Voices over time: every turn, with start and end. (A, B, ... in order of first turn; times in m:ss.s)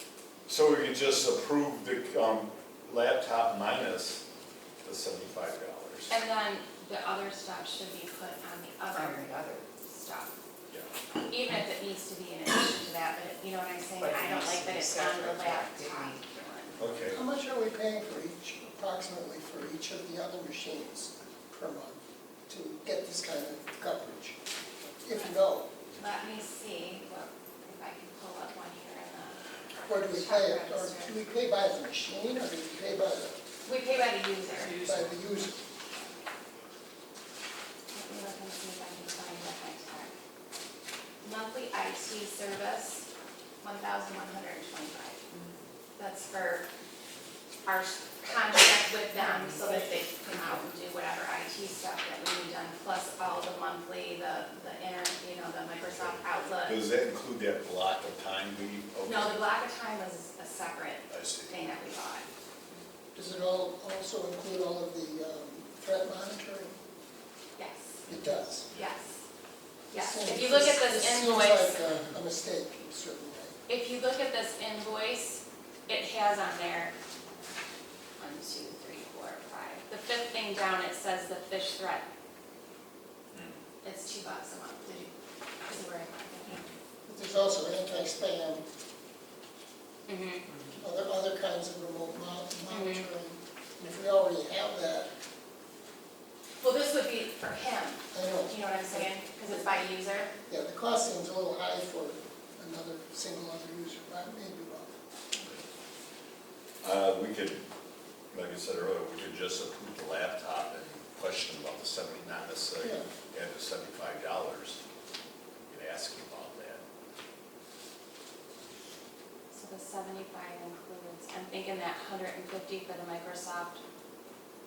0:00.5-0:04.2 A
0:04.8-0:06.1 A
0:06.1-0:09.3 B
0:08.9-0:09.6 C
0:09.9-0:10.3 B
0:11.3-0:16.8 B
0:14.0-0:16.2 C
0:16.8-0:17.2 A
0:17.1-0:25.7 D
0:26.0-0:31.1 B
0:29.8-0:33.4 D
0:33.6-0:34.8 B
0:34.8-0:35.6 D
0:34.8-0:35.0 C
0:37.9-0:40.1 B
0:41.2-0:43.1 B
0:43.6-0:45.2 B
0:46.0-0:46.7 B
0:47.7-0:56.8 B
0:49.1-0:50.7 C
0:55.8-0:59.4 A
0:59.0-1:02.2 B
1:01.1-1:01.6 A
1:03.1-1:06.7 D
1:07.6-1:08.0 B
1:08.1-1:08.7 D
1:08.1-1:08.9 A
1:08.7-1:09.2 B
1:09.9-1:11.8 B
1:09.9-1:13.6 D
1:13.7-1:16.9 B
1:18.2-1:22.0 B
1:23.3-1:23.6 A
1:23.8-1:26.7 B
1:27.0-1:28.6 D
1:30.1-1:30.4 B
1:30.7-1:35.1 D
1:32.7-1:33.1 B
1:36.6-1:40.3 B
1:38.1-1:39.5 D
1:40.5-1:44.9 D
1:46.8-1:47.6 A
1:48.3-1:54.8 A
1:52.8-1:53.1 D
1:55.7-1:56.8 A
1:59.5-2:03.8 B